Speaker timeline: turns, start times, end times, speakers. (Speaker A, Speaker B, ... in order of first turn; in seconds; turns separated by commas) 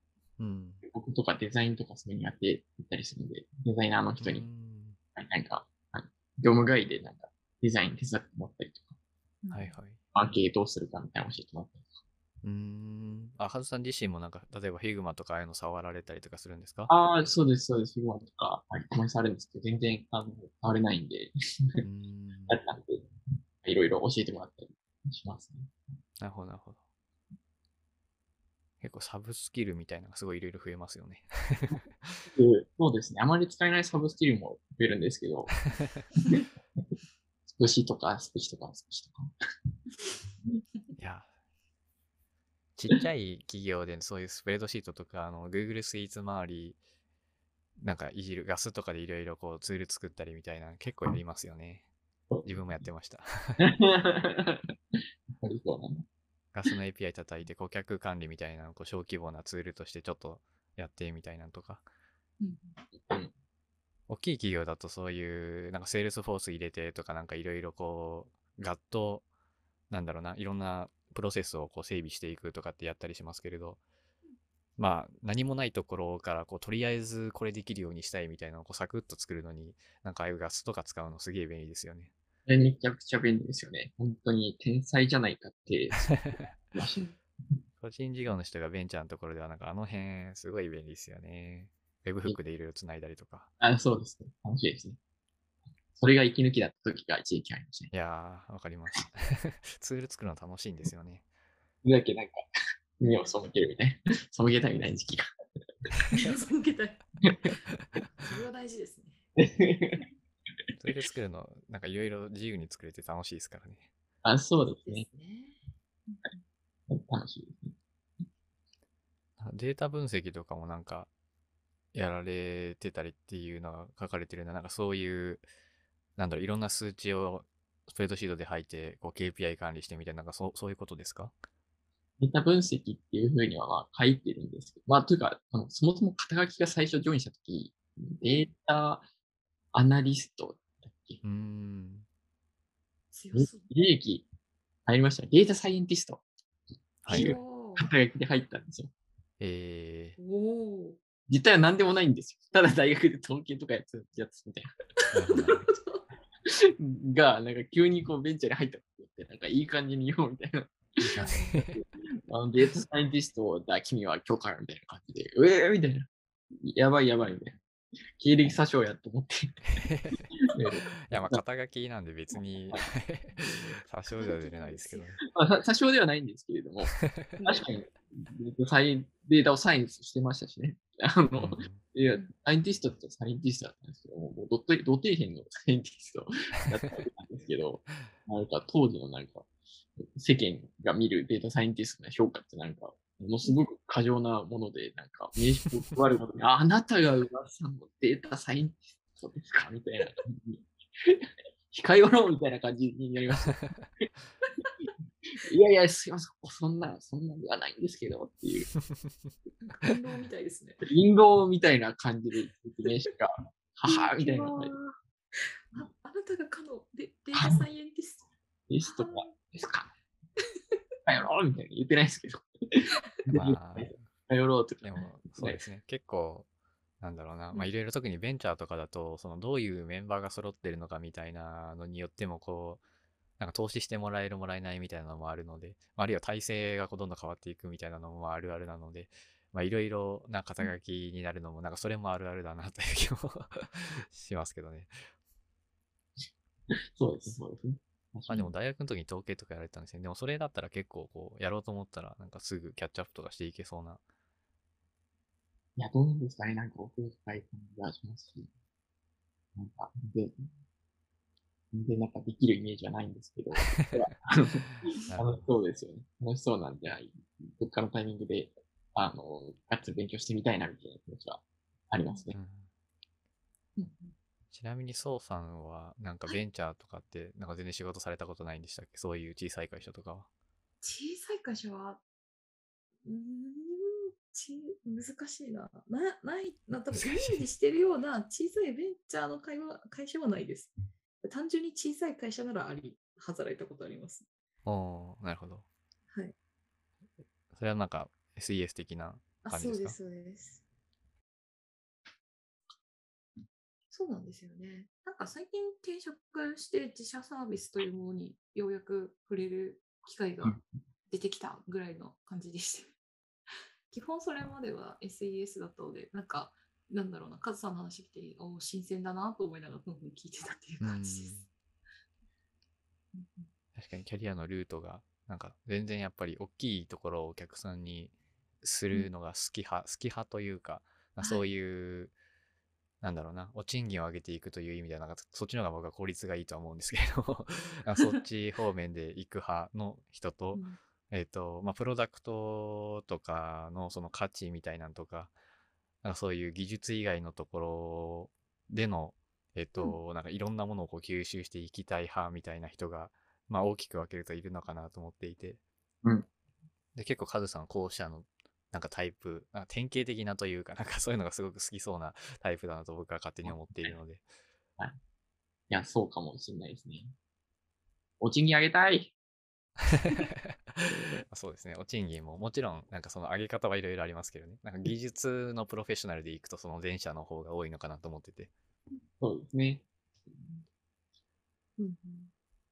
Speaker A: 0.4-0.8, Speaker B: 0.8-4.5, Speaker A: 4.2-5.0, Speaker B: 5.1-8.9, Speaker C: 9.4-9.7, Speaker A: 9.5-10.0, Speaker B: 10.1-11.9, Speaker A: 12.4-16.9, Speaker B: 16.9-21.8, Speaker A: 21.8-22.6, Speaker B: 22.5-23.1, Speaker B: 23.6-25.7, Speaker A: 26.2-26.8, Speaker A: 28.8-32.2, Speaker B: 32.3-35.5, Speaker A: 35.8-36.0, Speaker B: 36.2-36.9, Speaker B: 37.5-39.3, Speaker A: 41.0-41.3, Speaker A: 42.8-46.8, Speaker A: 47.8-51.9, Speaker A: 52.4-53.7, Speaker B: 53.6-54.6, Speaker B: 55.3-56.0, Speaker A: 56.5-61.8, Speaker C: 62.4-62.8, Speaker B: 63.0-63.3, Speaker A: 64.1-69.2, Speaker A: 69.9-73.8, Speaker A: 74.8-82.1, Speaker B: 82.5-86.1, Speaker A: 86.1-86.5, Speaker B: 86.7-87.1, Speaker A: 87.8-93.5, Speaker B: 93.6-95.0, Speaker B: 96.0-97.9, Speaker A: 97.9-101.2, Speaker B: 101.8-102.4, Speaker B: 103.0-105.3, Speaker C: 103.0-103.3, Speaker C: 106.1-107.2, Speaker C: 108.1-109.2, Speaker B: 109.4-110.0, Speaker A: 110.8-113.9, Speaker B: 114.2-115.1, Speaker C: 114.6-116.4, Speaker B: 116.9-117.7, Speaker A: 119.4-121.1, Speaker A: 121.9-125.4, Speaker A: 126.2-131.3, Speaker B: 132.2-139.0, Speaker B: 139.7-141.2, Speaker A: 141.2-142.1, Speaker C: 143.1-143.7, Speaker B: 143.3-144.2, Speaker B: 144.8-146.2, Speaker A: 147.0-147.3, Speaker C: 147.1-147.9, Speaker B: 147.1-148.9, Speaker A: 149.4-150.2, Speaker C: 150.2-151.0, Speaker B: 151.3-154.7, Speaker C: 155.0-156.0, Speaker A: 155.1-155.7, Speaker B: 156.4-167.6, Speaker A: 161.1-161.8, Speaker C: 161.2-161.6, Speaker B: 168.2-169.8, Speaker A: 169.7-170.3, Speaker B: 170.4-171.4, Speaker A: 171.1-175.2, Speaker C: 174.1-175.2, Speaker B: 175.3-204.0, Speaker A: 177.0-177.4, Speaker C: 177.4-177.7, Speaker A: 181.3-181.8, Speaker A: 203.5-203.8, Speaker B: 205.2-208.7, Speaker A: 208.8-209.3, Speaker C: 209.6-210.9, Speaker B: 210.8-214.7, Speaker C: 213.9-218.3, Speaker B: 217.3-217.6, Speaker B: 218.7-219.9, Speaker C: 218.8-219.3, Speaker C: 220.4-220.8, Speaker B: 221.1-225.6, Speaker A: 223.3-224.0, Speaker A: 224.8-226.5, Speaker A: 227.0-232.8, Speaker A: 233.4-244.9, Speaker B: 246.7-248.5, Speaker A: 248.3-254.0, Speaker B: 255.8-258.5, Speaker B: 259.6-260.5, Speaker B: 261.7-272.4, Speaker A: 263.6-264.1, Speaker A: 264.7-265.5, Speaker A: 272.3-272.7, Speaker C: 273.8-274.1, Speaker A: 274.5-280.3, Speaker C: 280.8-282.0, Speaker C: 283.0-294.2, Speaker A: 286.9-287.4, Speaker A: 294.6-295.6, Speaker A: 297.5-300.0, Speaker C: 299.4-300.6, Speaker C: 303.9-312.9, Speaker C: 313.9-321.3, Speaker A: 320.8-321.5, Speaker C: 323.1-323.5, Speaker A: 323.7-332.1, Speaker C: 331.2-331.4, Speaker A: 333.0-345.3, Speaker A: 346.0-355.6, Speaker A: 356.9-364.2, Speaker B: 363.4-364.0, Speaker B: 365.7-367.1, Speaker B: 368.2-369.1, Speaker A: 369.9-378.5, Speaker B: 370.9-371.2, Speaker B: 379.2-380.6, Speaker C: 381.8-382.3